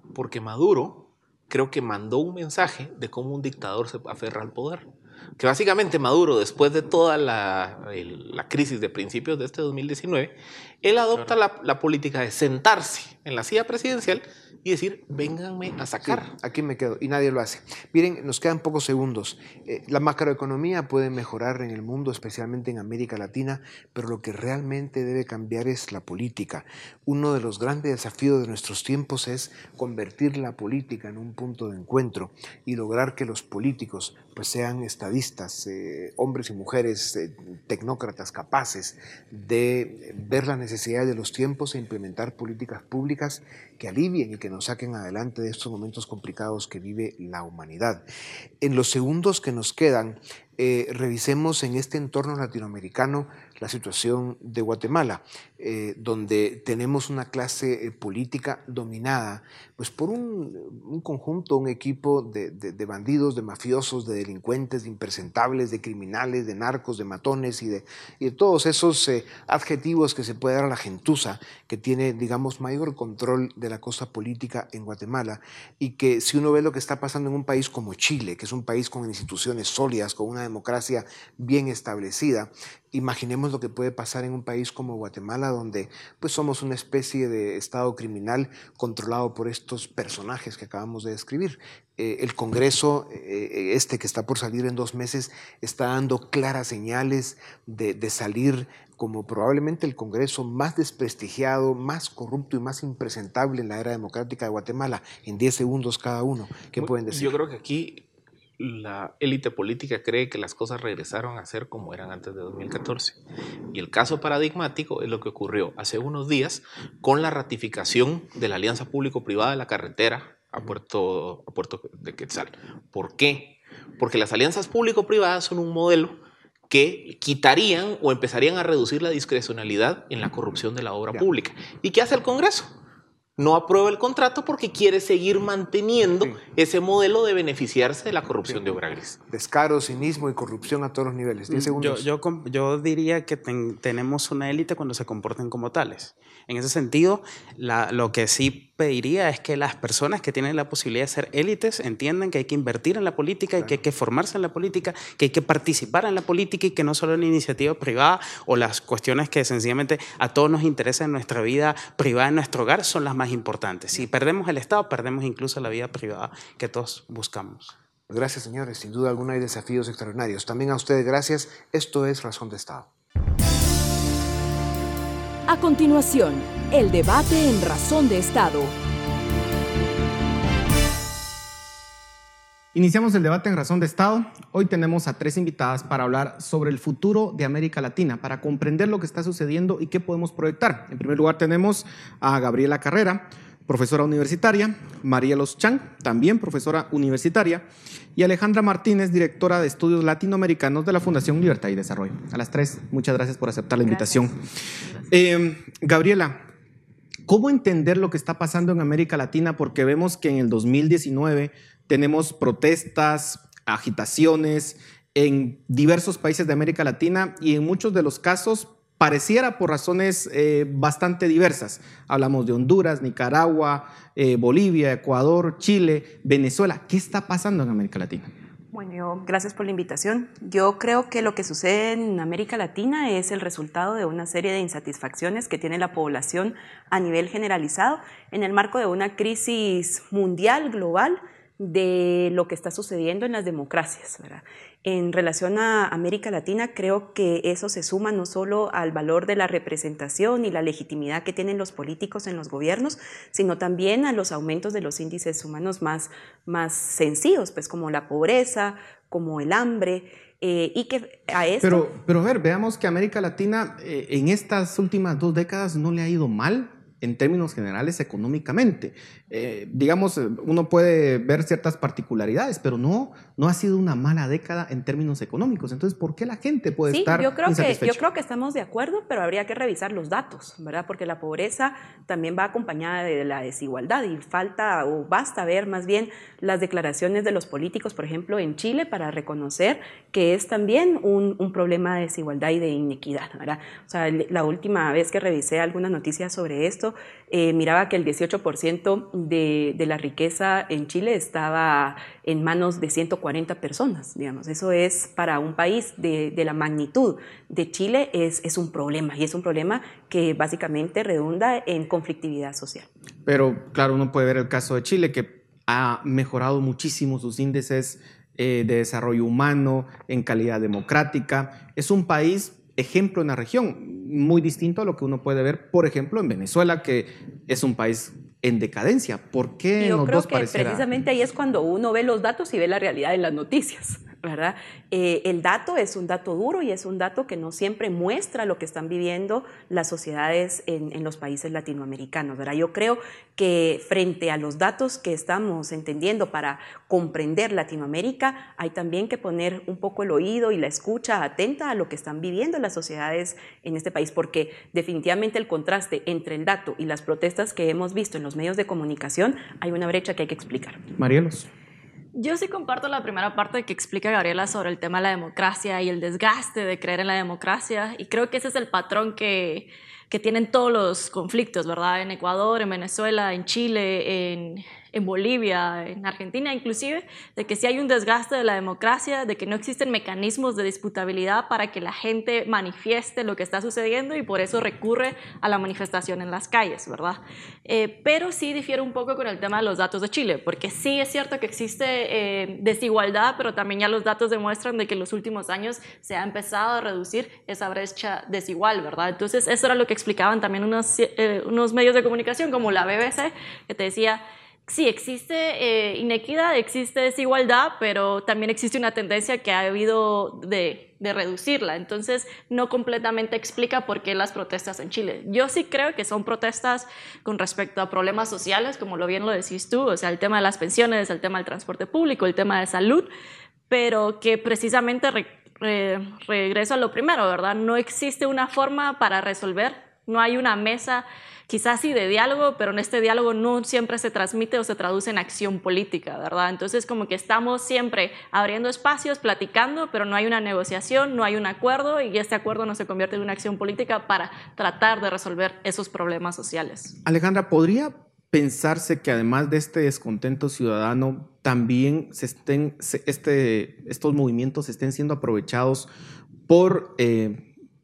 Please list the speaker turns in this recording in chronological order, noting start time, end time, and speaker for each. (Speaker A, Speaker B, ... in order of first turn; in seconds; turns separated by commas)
Speaker A: 0.1-16.3, Speaker B: 16.0-48.1, Speaker B: 48.6-107.4, Speaker A: 106.8-108.1, Speaker A: 108.6-113.2, Speaker A: 113.7-132.7, Speaker A: 133.4-139.2, Speaker B: 139.3-142.1, Speaker C: 141.5-167.7, Speaker B: 168.1-172.9, Speaker D: 175.5-178.8, Speaker E: 182.7-204.4, Speaker F: 203.8-204.3, Speaker E: 205.1-206.4, Speaker E: 207.3-228.3, Speaker F: 228.7-261.9, Speaker E: 261.6-278.0, Speaker F: 276.9-312.9, Speaker E: 313.3-330.9, Speaker F: 329.8-360.8, Speaker E: 361.0-361.5, Speaker G: 362.1-423.1, Speaker G: 423.7-447.0, Speaker E: 447.1-455.9, Speaker E: 456.5-457.5